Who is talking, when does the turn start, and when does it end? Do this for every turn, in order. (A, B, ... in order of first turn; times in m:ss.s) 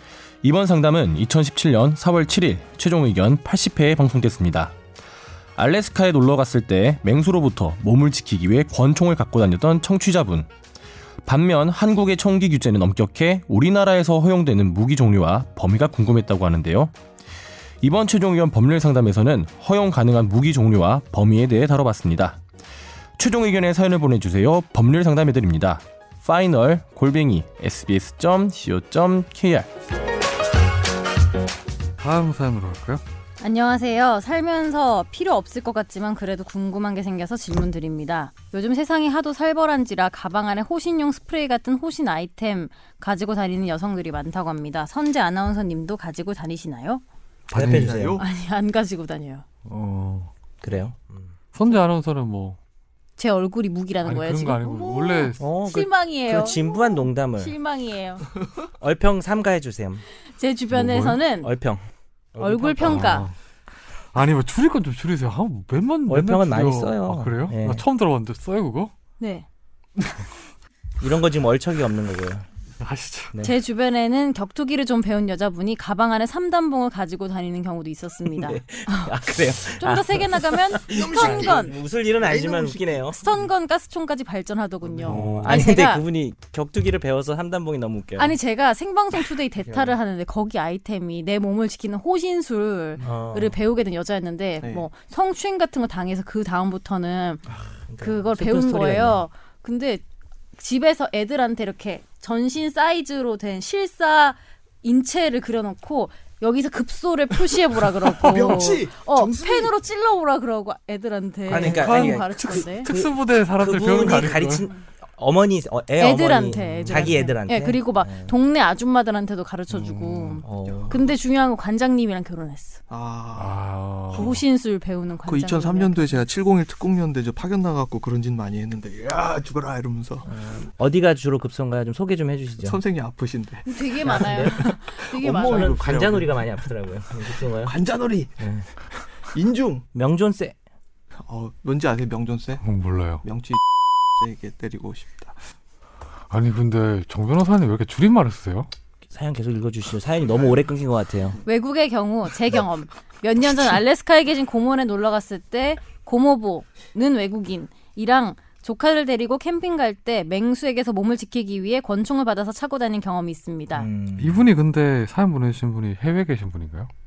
0:00.4-0:04.8 A
0:05.6-0:10.5 A
0:11.2-0:16.9 A
0:17.8-0:22.4 A
0:23.2-0:29.7 A
0:32.0-0:33.0 B
0:33.4-0:47.0 C
0:47.5-0:48.3 D
0:47.5-0:47.9 B
0:47.5-0:48.2 E
0:48.1-0:49.4 C
0:49.7-0:50.3 B
0:50.6-0:51.3 E
0:51.5-0:52.6 B
0:53.2-0:58.3 C
0:54.0-0:55.4 B
0:55.4-0:57.6 E
0:58.7-1:00.0 E
1:00.3-1:01.5 C
1:00.7-1:01.2 B
1:01.4-1:01.8 E
1:02.4-1:03.2 E
1:02.4-1:03.3 C
1:02.8-1:03.4 B
1:04.1-1:08.9 B
1:06.1-1:07.8 E
1:09.2-1:09.5 C
1:11.0-1:12.4 E
1:12.8-1:13.4 B
1:13.4-1:21.8 C
1:18.3-1:23.2 E
1:20.9-1:23.5 D
1:23.2-1:26.0 C
1:25.0-1:25.6 B
1:25.0-1:25.3 D
1:25.1-1:28.4 E
1:28.2-1:37.4 C
1:33.0-1:33.6 E
1:34.6-1:34.9 D
1:37.9-1:39.2 E
1:38.0-1:40.0 C
1:40.6-1:52.9 C
1:48.0-1:49.8 D
1:51.5-1:58.4 E
1:51.5-1:54.7 B
1:51.6-1:52.3 D
1:54.2-1:54.7 C
1:56.0-2:02.8 C
1:56.6-1:57.2 B
1:59.7-2:00.4 B
2:00.4-2:01.0 E
2:00.6-2:01.1 D
2:02.9-2:04.4 D
2:03.4-2:04.4 B
2:04.2-2:06.2 C
2:05.2-2:10.3 D
2:10.3-2:12.8 E
2:12.6-2:16.7 D
2:13.7-2:15.8 C
2:14.0-2:14.8 E
2:15.4-2:17.8 E
2:17.4-2:18.5 D
2:18.4-2:18.7 E
2:19.2-2:19.8 D
2:19.9-2:20.6 E
2:21.2-2:22.6 D
2:22.6-2:23.2 B
2:23.2-2:25.4 D
2:26.3-2:28.7 B
2:29.1-2:31.4 E
2:31.4-2:43.9 C
2:43.7-2:44.4 E
2:44.2-2:46.9 B